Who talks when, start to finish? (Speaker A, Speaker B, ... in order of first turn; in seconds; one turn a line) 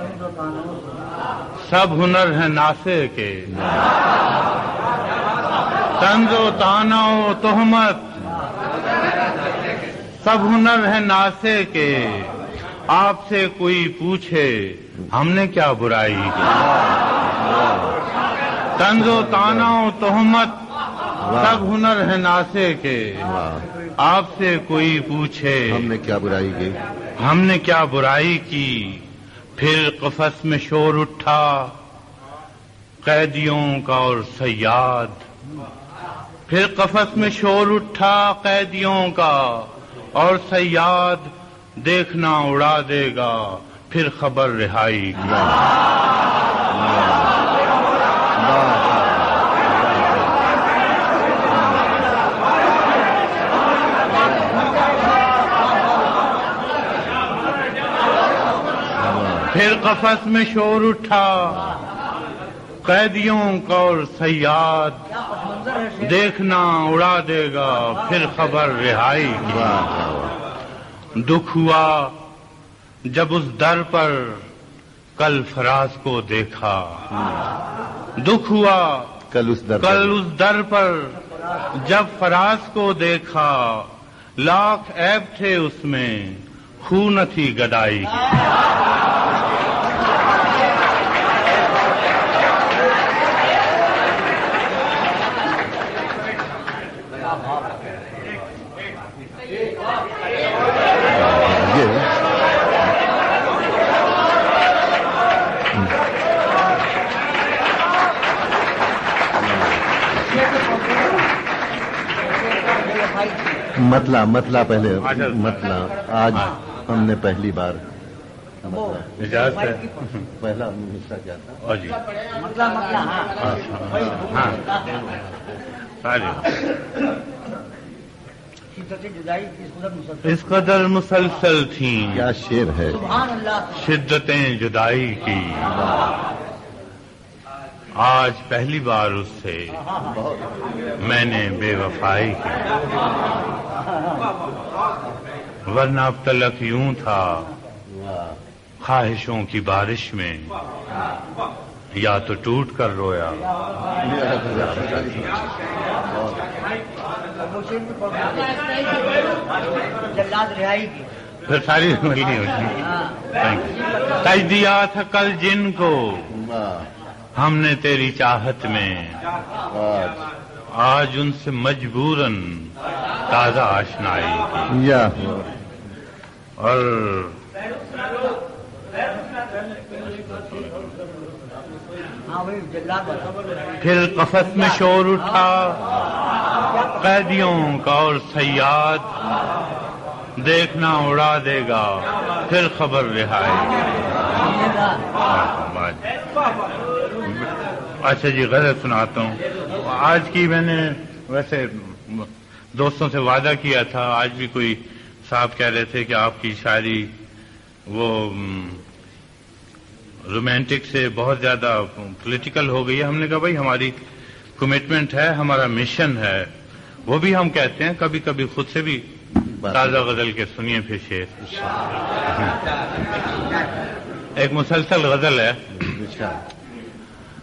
Speaker A: 1.6-3.6
Speaker B: 3.5-3.8
Speaker A: 6.0-8.2
Speaker A: 10.2-12.3
Speaker A: 12.9-16.6
Speaker B: 16.5-18.0
Speaker A: 18.8-20.6
Speaker B: 18.9-19.8
Speaker B: 21.2-21.7
Speaker A: 21.3-23.3
Speaker B: 23.2-23.7
Speaker A: 24.0-25.9
Speaker B: 25.7-26.8
Speaker A: 27.2-31.7
Speaker A: 33.0-35.2
Speaker A: 36.5-45.4
Speaker B: 45.2-45.7
Speaker B: 46.7-47.4
Speaker B: 48.4-50.4
Speaker B: 51.5-52.1
Speaker B: 54.1-54.7
Speaker B: 59.0-59.5
Speaker A: 59.5-61.8
Speaker A: 62.8-65.0
Speaker A: 66.0-69.8
Speaker B: 69.4-70.4
Speaker A: 71.2-72.1
Speaker A: 73.1-74.4
Speaker A: 75.2-77.0
Speaker B: 77.1-77.5
Speaker A: 78.2-79.1
Speaker B: 79.3-80.2
Speaker A: 79.8-81.2
Speaker A: 81.8-88.4
Speaker B: 101.1-102.1
Speaker B: 109.4-109.8
Speaker C: 112.5-113.6
Speaker B: 113.8-117.8
Speaker A: 115.0-115.8
Speaker B: 118.6-119.2
Speaker C: 118.7-119.8
Speaker A: 119.2-120.2
Speaker B: 120.3-121.6
Speaker A: 121.6-122.0
Speaker C: 122.3-124.9
Speaker A: 123.4-124.6
Speaker B: 123.9-125.2
Speaker A: 126.0-126.6
Speaker C: 128.8-130.2
Speaker A: 130.2-132.3
Speaker B: 132.1-133.1
Speaker C: 132.9-133.6
Speaker A: 133.7-135.8
Speaker B: 135.6-136.2
Speaker A: 137.9-139.8
Speaker B: 140.0-140.6
Speaker A: 141.0-142.6
Speaker A: 145.7-147.5
Speaker B: 147.9-148.4
Speaker A: 148.8-150.5
Speaker A: 151.9-153.4
Speaker B: 154.0-155.5
Speaker A: 154.5-155.4
Speaker B: 156.0-156.5
Speaker C: 157.4-159.3
Speaker C: 160.0-161.1
Speaker A: 161.4-166.4
Speaker B: 166.3-166.9
Speaker A: 167.3-169.2
Speaker B: 169.7-170.3
Speaker A: 170.7-172.7
Speaker A: 173.3-174.8
Speaker B: 174.7-175.5
Speaker A: 176.6-177.4
Speaker C: 182.3-183.4
Speaker A: 183.8-185.8
Speaker A: 186.8-189.1
Speaker A: 190.3-194.6
Speaker A: 195.1-196.1
Speaker A: 197.2-207.1
Speaker A: 207.9-208.8
Speaker A: 210.2-213.9
Speaker A: 214.6-216.5
Speaker A: 217.0-219.0
Speaker B: 219.5-220.1
Speaker A: 219.6-221.3
Speaker B: 221.4-221.7
Speaker A: 224.3-225.8
Speaker B: 225.8-226.4